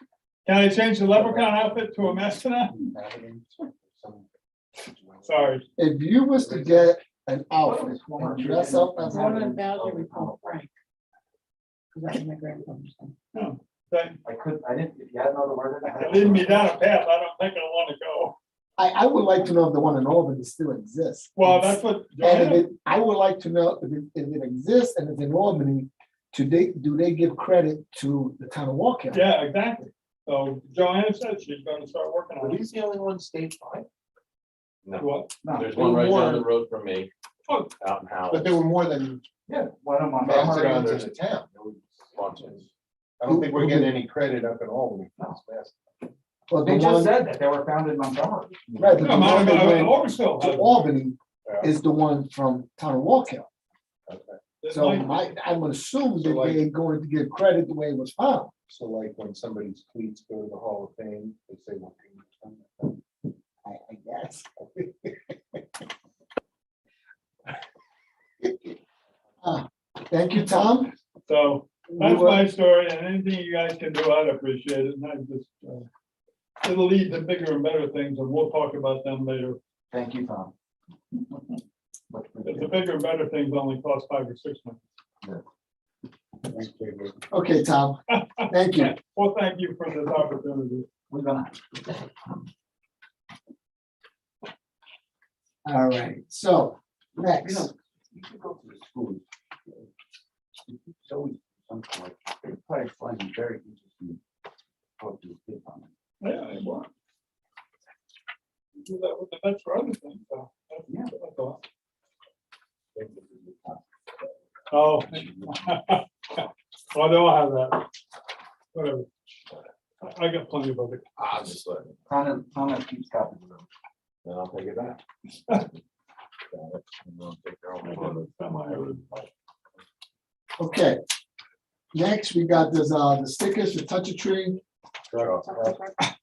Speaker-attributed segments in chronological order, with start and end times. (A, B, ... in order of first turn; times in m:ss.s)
0:00.4-0:02.8 A
0:01.1-0:04.3 B
0:04.8-0:05.6 B
0:05.2-0:05.6 A
0:05.8-0:09.4 C
0:06.4-0:06.9 D
0:07.6-0:10.6 D
0:09.0-0:10.7 E
0:11.9-0:13.1 E
0:13.3-0:14.2 A
0:14.2-0:16.8 D
0:16.0-0:18.4 A
0:18.8-0:29.3 C
0:21.3-0:22.7 A
0:29.1-0:32.6 A
0:32.4-0:33.9 B
0:34.8-0:37.1 F
0:35.0-0:35.3 A
0:35.4-0:36.2 D
0:35.7-0:36.4 B
0:37.8-0:38.6 F
0:38.3-0:39.2 B
0:39.5-0:41.1 D
0:40.2-0:42.6 B
0:42.1-0:42.6 F
0:43.2-0:45.8 B
0:43.3-0:44.0 C
0:46.5-0:47.2 C
0:46.6-0:49.4 D
0:48.8-0:53.5 C
0:49.0-0:51.0 A
0:51.4-0:51.7 B
0:54.1-0:54.4 B
0:54.6-0:55.1 A
0:54.7-0:58.5 C
0:56.2-0:56.6 B
0:58.7-1:03.0 B
1:03.6-1:04.5 C
1:08.4-1:08.7 C
1:09.4-1:10.9 C
1:11.3-1:15.9 A
1:11.9-1:12.4 C
1:16.6-1:19.6 A
1:19.9-1:20.5 D
1:22.1-1:22.8 D
1:22.4-1:24.8 A
1:26.6-1:27.1 B
1:27.3-1:28.9 C
1:28.7-1:30.9 A
1:31.1-1:32.0 D
1:35.6-1:37.7 C
1:37.3-1:39.2 D
1:40.6-1:44.2 D
1:45.0-1:45.9 D
1:46.2-1:46.9 A
1:48.8-1:51.6 A
1:50.9-1:51.1 D
1:53.0-1:53.2 F
1:54.7-1:57.8 A
1:58.7-1:59.1 A
2:00.0-2:01.0 A
2:01.2-2:02.0 F
2:02.1-2:03.6 D
2:04.2-2:05.0 F
2:06.5-2:09.2 F
2:07.8-2:09.1 A
2:10.6-2:11.0 C
2:11.9-2:14.6 C
2:15.1-2:15.8 B
2:15.2-2:15.5 F
2:15.5-2:15.9 E